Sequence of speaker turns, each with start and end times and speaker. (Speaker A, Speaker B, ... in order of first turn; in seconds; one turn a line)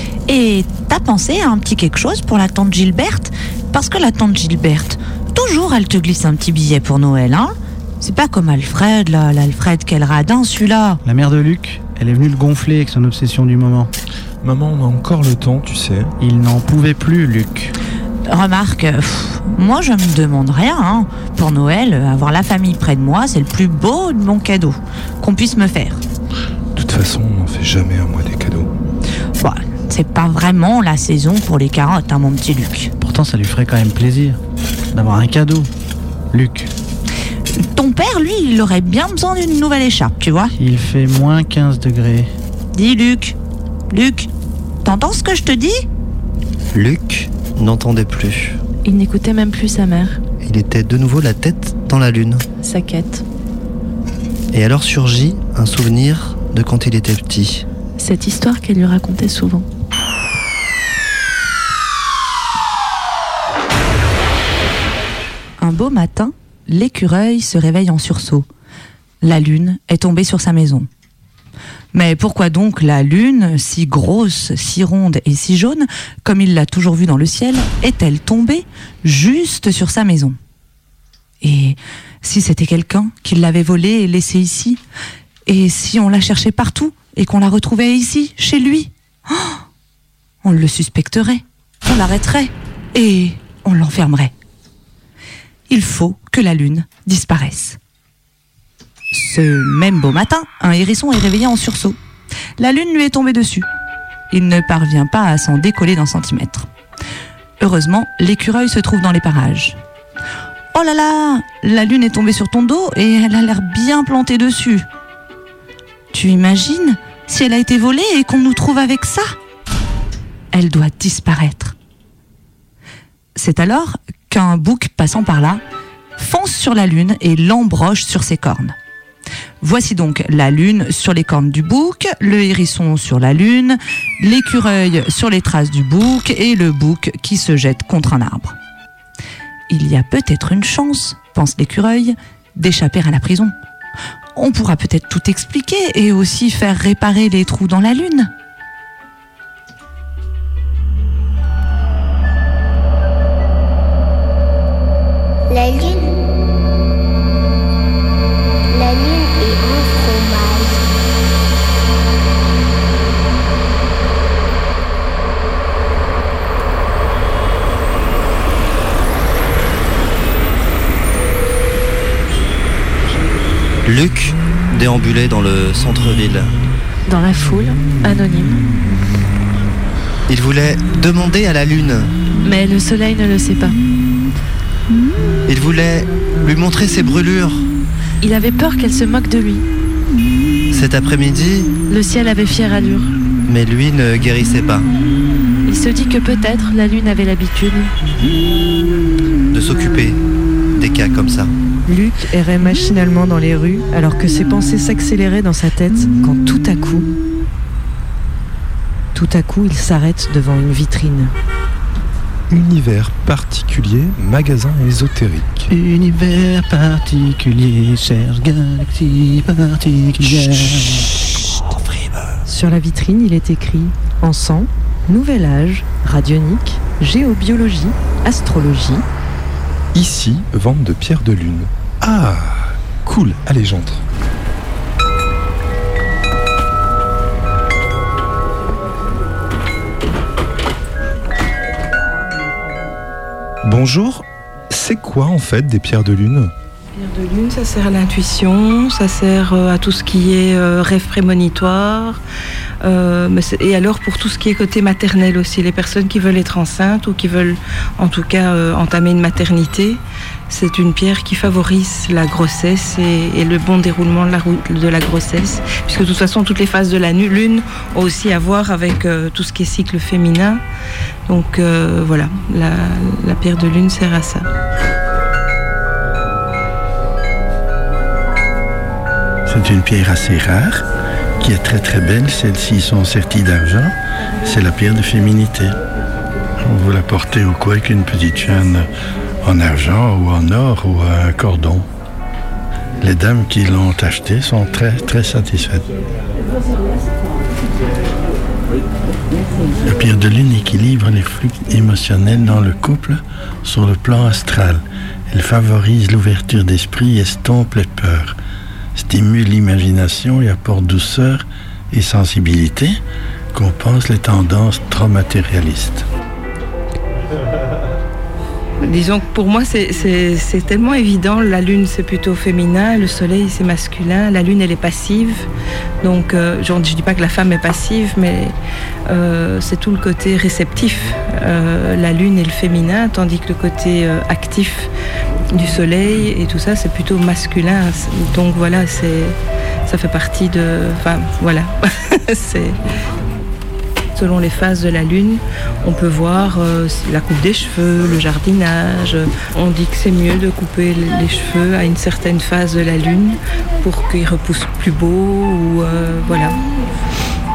Speaker A: 0.3-11.0
Speaker B: 11.1-13.9
Speaker C: 14.4-16.1
Speaker B: 16.2-17.7
Speaker A: 18.3-26.0
Speaker C: 26.7-28.7
Speaker A: 29.4-32.9
Speaker B: 33.0-34.4
Speaker B: 34.9-35.7
Speaker B: 36.3-36.7
Speaker A: 37.6-40.5
Speaker B: 40.6-42.3
Speaker A: 42.7-43.4
Speaker A: 43.9-44.3
Speaker A: 44.8-45.9
Speaker D: 46.7-48.6
Speaker E: 48.9-50.2
Speaker D: 50.4-52.5
Speaker E: 52.6-53.2
Speaker D: 54.5-57.7
Speaker E: 58.0-59.7
Speaker A: 65.6-68.5
Speaker A: 69.2-70.9
Speaker A: 71.9-80.4
Speaker A: 81.4-84.8
Speaker A: 85.5-89.6
Speaker A: 90.4-94.3
Speaker A: 95.7-97.8
Speaker A: 99.1-102.0
Speaker A: 102.6-103.7
Speaker A: 104.3-106.7
Speaker A: 107.6-109.8
Speaker A: 110.7-114.9
Speaker A: 116.1-119.4
Speaker A: 120.5-121.8
Speaker A: 123.4-125.6
Speaker A: 126.2-128.8
Speaker A: 129.6-138.6
Speaker A: 139.7-143.6
Speaker A: 144.4-148.3
Speaker F: 155.5-156.1
Speaker F: 158.7-160.9
Speaker D: 173.9-176.6
Speaker E: 177.1-178.6
Speaker D: 180.3-182.1
Speaker E: 182.4-183.8
Speaker D: 185.5-187.7
Speaker E: 188.2-189.7
Speaker D: 190.7-191.7
Speaker E: 191.9-193.1
Speaker D: 193.5-194.9
Speaker E: 195.7-197.9
Speaker D: 199.5-200.2
Speaker D: 200.7-201.5
Speaker G: 201.9-207.1
Speaker G: 209.1-211.3
Speaker C: 212.5-215.6
Speaker B: 215.7-221.2
Speaker G: 222.5-229.1
Speaker C: 229.9-234.0
Speaker C: 243.6-246.5
Speaker H: 246.9-252.2
Speaker H: 252.8-270.6
Speaker H: 271.3-274.5
Speaker I: 279.5-280.9
Speaker I: 281.4-285.8
Speaker I: 286.6-288.9
Speaker I: 289.4-291.9
Speaker I: 293.0-295.9
Speaker I: 299.8-308.4
Speaker I: 309.0-313.0
Speaker I: 313.5-316.1
Speaker H: 318.8-325.5
Speaker H: 326.0-328.6
Speaker H: 329.1-334.9
Speaker H: 335.5-342.8
Speaker H: 344.1-356.6